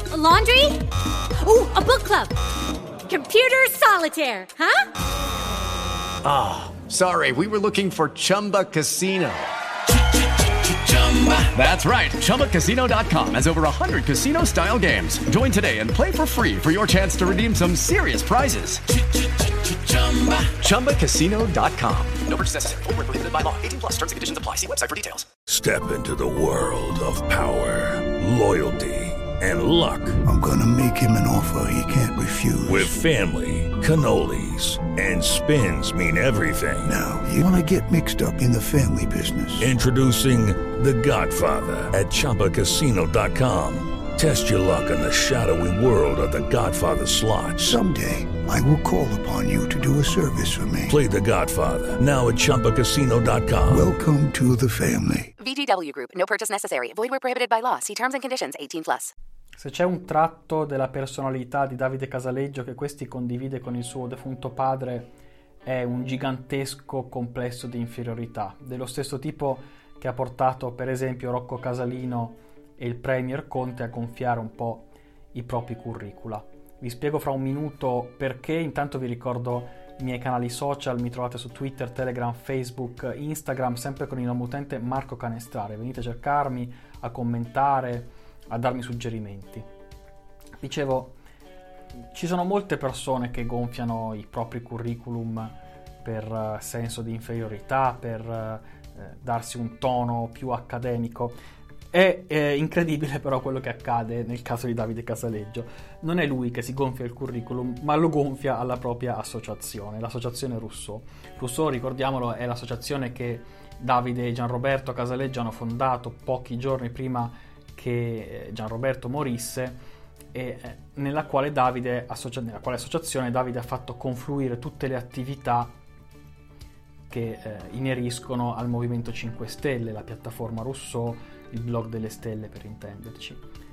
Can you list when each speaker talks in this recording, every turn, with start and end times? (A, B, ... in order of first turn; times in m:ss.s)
0:00.1-0:00.8 A
0:01.4-0:02.3 A
0:03.1-0:04.9 A
0:06.2-0:09.5 B
0:10.5-0:18.8 B
0:19.7-0:25.3 B
0:25.5-0:30.2 C
0:30.2-0:32.9 D
0:32.7-0:36.9 C
0:36.8-0:39.7 D
0:39.6-0:47.8 C
0:47.6-0:51.0 D
0:50.9-0:53.9 C
0:53.7-0:55.3 D
0:55.4-0:59.1 E
0:59.6-1:05.1 F
1:05.6-1:29.6 F
1:30.6-1:31.1 F
1:32.1-1:41.4 F
1:41.9-1:59.8 F
2:00.3-2:05.7 F
2:07.1-2:13.4 F